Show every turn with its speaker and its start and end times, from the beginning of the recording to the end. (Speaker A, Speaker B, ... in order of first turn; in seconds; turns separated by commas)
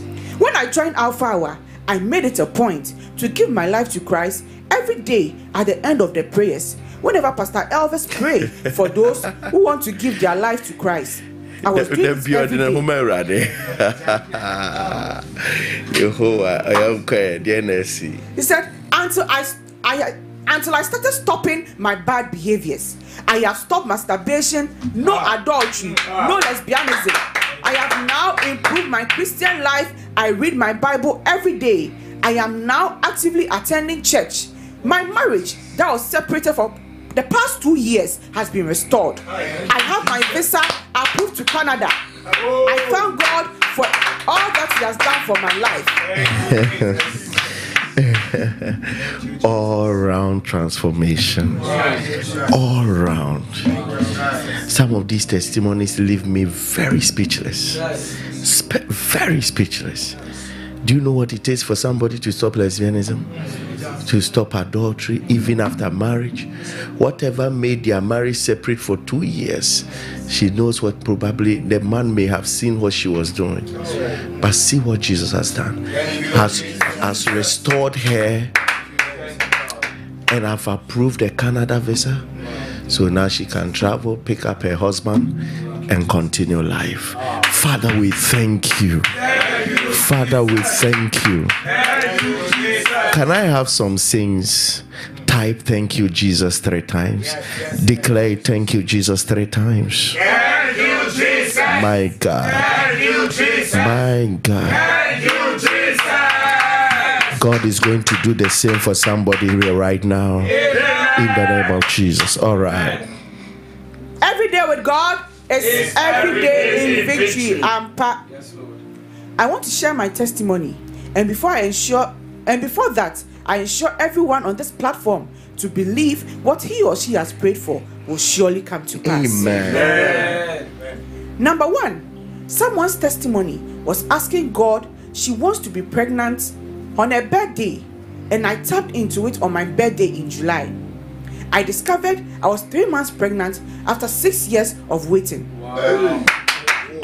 Speaker A: 0.4-12.8, Speaker B: 11.7-18.3, Speaker A: 18.4-42.0, Speaker A: 42.6-46.1, Speaker B: 46.2-47.2, Speaker B: 47.9-51.8, Speaker B: 52.5-53.8, Speaker B: 54.4-60.2, Speaker B: 60.8-63.3, Speaker B: 64.0-73.9, Speaker B: 74.4-78.5, Speaker B: 80.3-82.3, Speaker B: 82.9-91.6, Speaker B: 93.0-100.2, Speaker C: 100.4-101.6, Speaker B: 101.6-103.0, Speaker B: 103.7-104.9, Speaker C: 104.9-106.3, Speaker B: 107.3-113.0, Speaker A: 114.2-118.2, Speaker A: 119.4-130.1, Speaker B: 129.0-130.0, Speaker C: 130.2-130.6, Speaker A: 131.4-140.7, Speaker A: 141.5-145.5